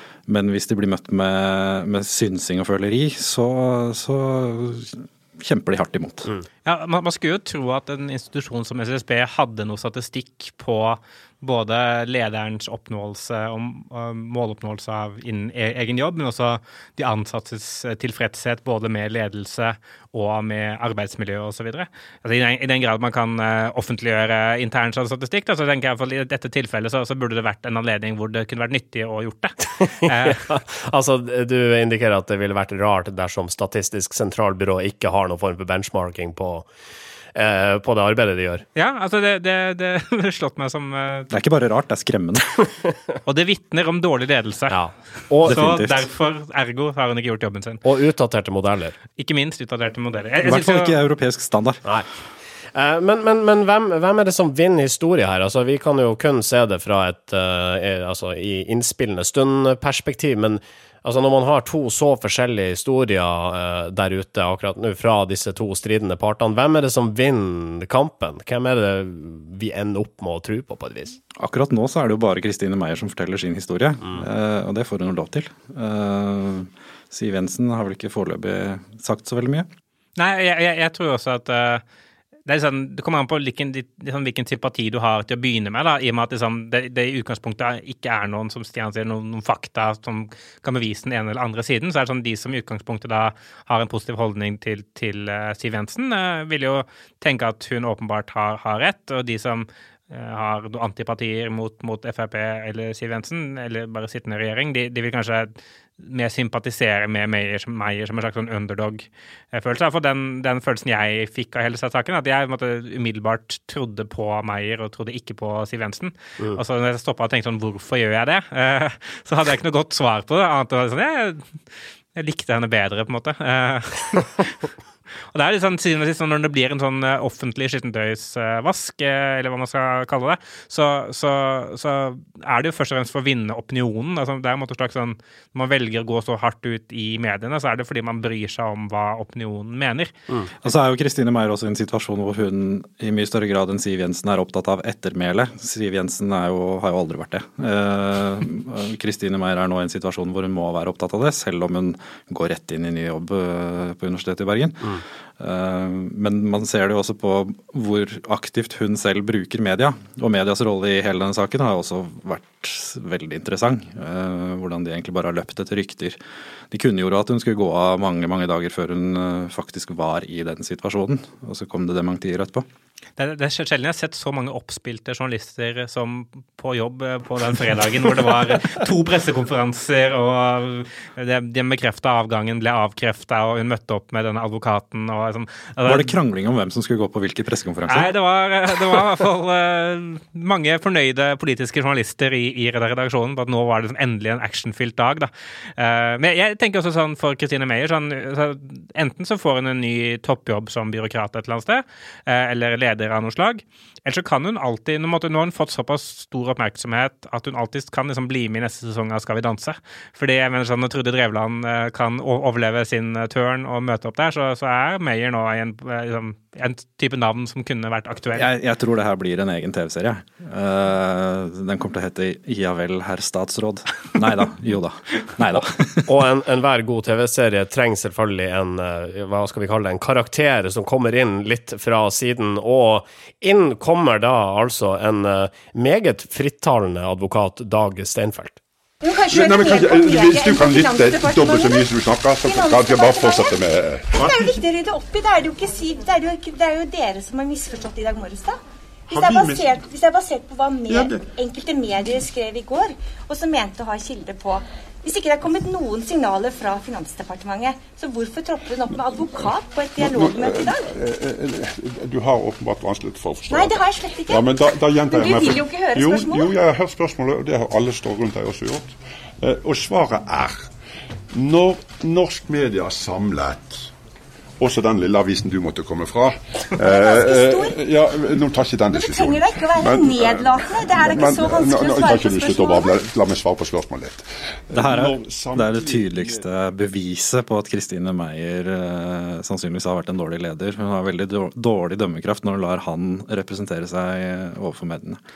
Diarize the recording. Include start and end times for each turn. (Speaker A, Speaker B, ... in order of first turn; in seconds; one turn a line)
Speaker A: 0.3-6.3
Speaker B: 6.7-30.4
Speaker C: 29.8-36.7
Speaker C: 37.4-38.6
Speaker B: 38.8-41.3
Speaker A: 41.3-42.5
Speaker B: 43.2-44.8
Speaker C: 44.7-45.8
Speaker A: 45.4-46.0
Speaker B: 45.5-47.8
Speaker C: 47.8-49.0
Speaker B: 49.2-51.0
Speaker A: 50.4-51.8
Speaker C: 52.7-71.2
Speaker A: 71.4-79.7
Speaker B: 80.2-81.8
Speaker B: 82.5-121.5
Speaker B: 122.2-124.6
Speaker B: 125.3-140.1
Speaker A: 140.6-166.2
Speaker A: 166.7-172.7
Speaker B: 173.2-186.1
Speaker A: 185.8-188.1
Speaker B: 187.9-218.5
Speaker A: 218.3-226.1
Speaker C: 226.1-238.6
Speaker D: 239.0-241.9
Speaker E: 239.3-244.6
Speaker D: 242.4-243.6
Speaker D: 244.1-248.6
Speaker E: 249.1-249.8
Speaker D: 249.1-260.9
Speaker E: 250.9-251.3
Speaker E: 260.0-270.7
Speaker D: 263.5-266.5
Speaker E: 271.3-273.9
Speaker E: 274.6-286.4
Speaker D: 276.8-277.8
Speaker D: 278.9-283.0
Speaker A: 284.7-295.2